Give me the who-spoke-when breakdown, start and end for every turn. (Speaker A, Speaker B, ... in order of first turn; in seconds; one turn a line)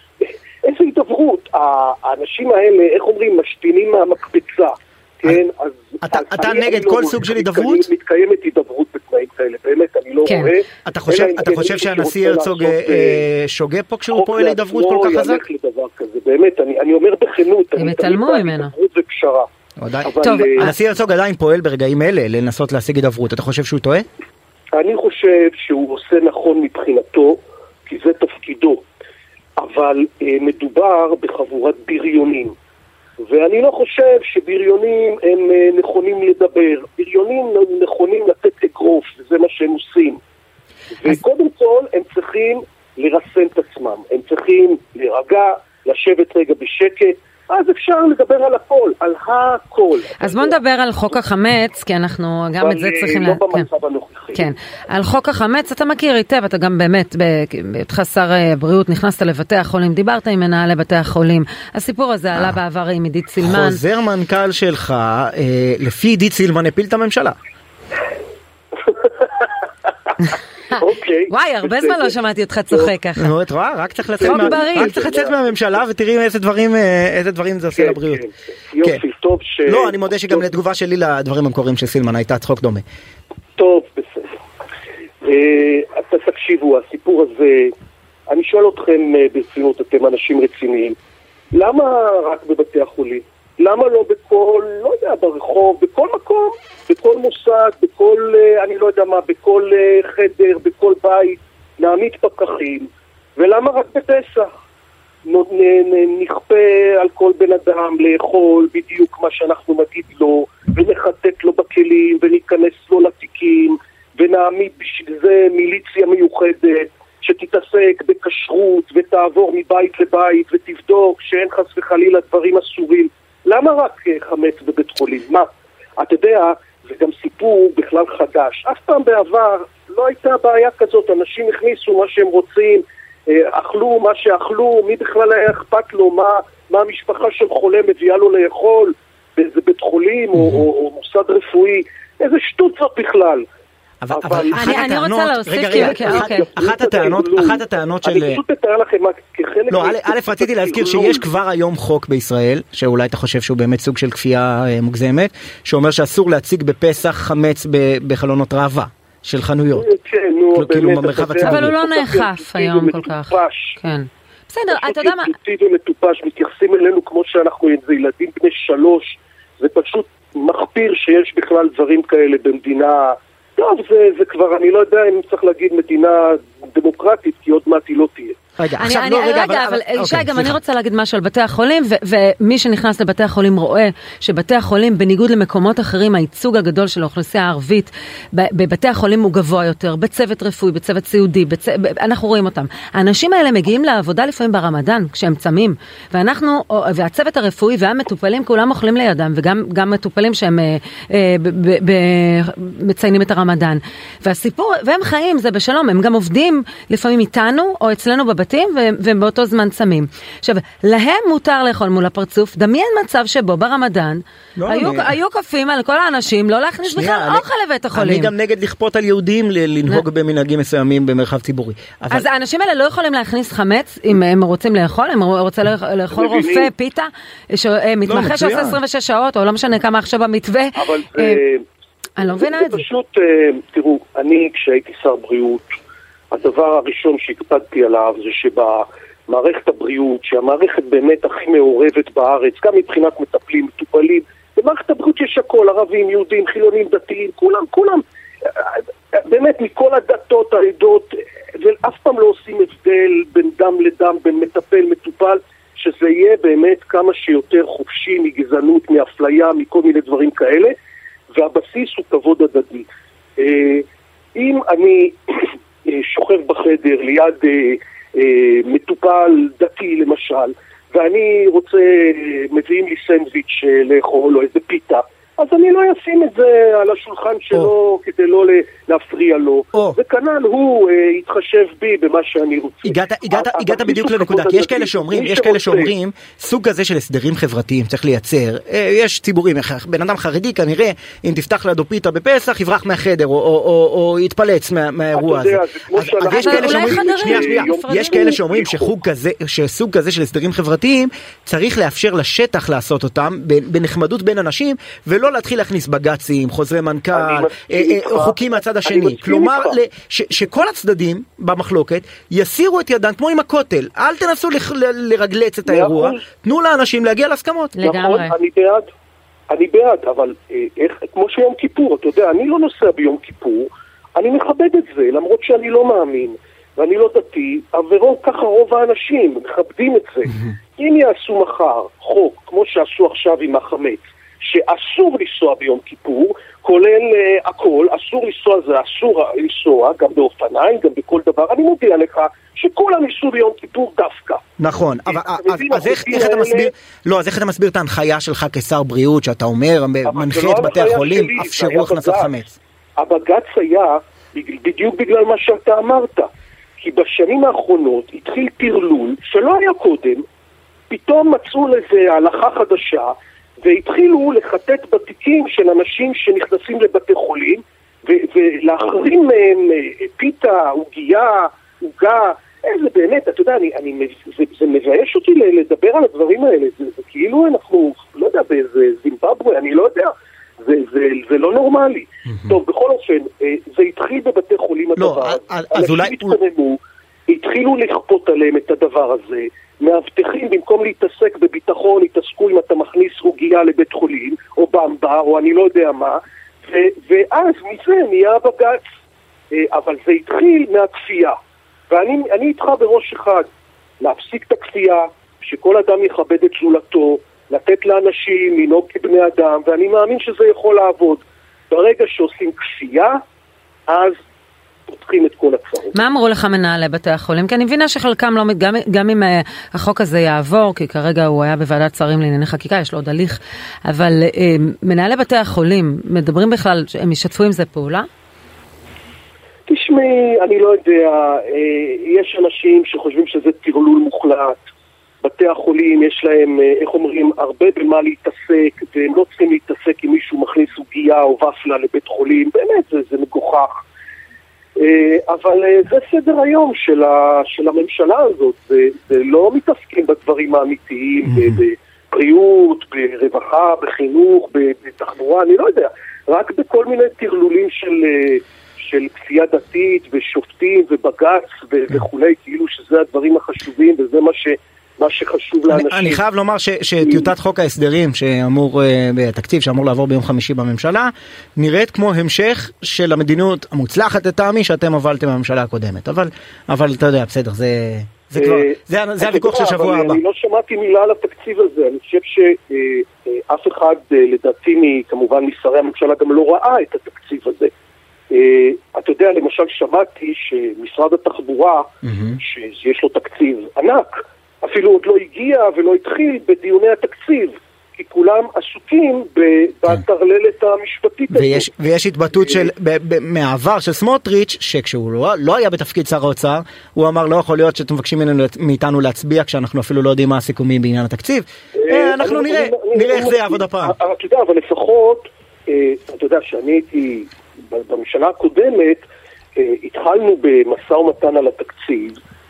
Speaker A: 0.2-13.3
Speaker B: 6.0-7.9
Speaker C: 10.2-10.5
Speaker B: 10.8-15.4
Speaker A: 14.1-19.5
Speaker C: 17.8-18.7
Speaker B: 19.8-24.0
Speaker A: 20.0-20.7
Speaker C: 20.2-20.7
Speaker A: 24.7-28.8
Speaker A: 29.6-32.5
Speaker A: 33.2-40.2
Speaker A: 41.0-50.6
Speaker C: 50.2-53.6
Speaker A: 52.6-54.5
Speaker C: 54.3-63.8
Speaker B: 63.4-67.3
Speaker A: 68.8-69.5
Speaker A: 70.7-72.2
Speaker C: 71.3-73.3
Speaker B: 73.2-78.2
Speaker A: 74.2-75.6
Speaker C: 74.2-75.0
Speaker A: 77.7-80.5
Speaker B: 79.7-82.8
Speaker A: 83.5-84.4
Speaker A: 85.2-87.7
Speaker A: 88.3-90.9
Speaker A: 91.5-104.5
Speaker A: 105.3-143.4
Speaker B: 140.4-140.6
Speaker B: 144.0-148.4
Speaker A: 144.1-144.9
Speaker C: 144.6-146.4
Speaker A: 145.7-151.2
Speaker B: 149.7-159.9
Speaker A: 159.7-163.8
Speaker B: 160.5-161.7
Speaker C: 161.4-165.3
Speaker A: 164.7-178.4
Speaker B: 178.6-180.6
Speaker C: 178.8-218.3
Speaker B: 214.6-215.1
Speaker B: 216.8-222.2
Speaker C: 222.1-231.4
Speaker A: 226.1-226.7
Speaker B: 228.1-228.8
Speaker A: 230.8-231.6
Speaker C: 232.2-232.8
Speaker A: 232.4-235.7
Speaker A: 236.3-260.7
Speaker A: 261.3-262.9
Speaker A: 263.4-285.9
Speaker B: 282.8-317.7
Speaker A: 295.1-298.9
Speaker C: 296.3-298.4
Speaker A: 307.1-309.8
Speaker A: 315.7-316.2
Speaker C: 317.7-318.3
Speaker A: 317.8-318.9
Speaker A: 319.5-344.4
Speaker B: 344.6-352.6
Speaker A: 345.1-346.7
Speaker A: 350.0-352.3
Speaker A: 353.0-360.2
Speaker A: 360.9-398.9
Speaker B: 382.3-382.6
Speaker B: 384.9-386.4
Speaker A: 399.5-401.4
Speaker A: 401.9-403.4
Speaker A: 404.0-413.2
Speaker A: 413.9-414.2
Speaker A: 414.9-416.0
Speaker C: 415.9-428.1
Speaker A: 429.7-434.6
Speaker A: 435.2-443.8
Speaker A: 444.8-466.2
Speaker B: 451.2-451.6
Speaker B: 465.7-480.2
Speaker A: 467.0-467.3
Speaker A: 478.4-487.7
Speaker A: 488.3-501.7
Speaker B: 492.0-492.4
Speaker B: 501.3-514.0
Speaker A: 502.4-502.7
Speaker A: 511.7-519.0
Speaker A: 519.5-522.2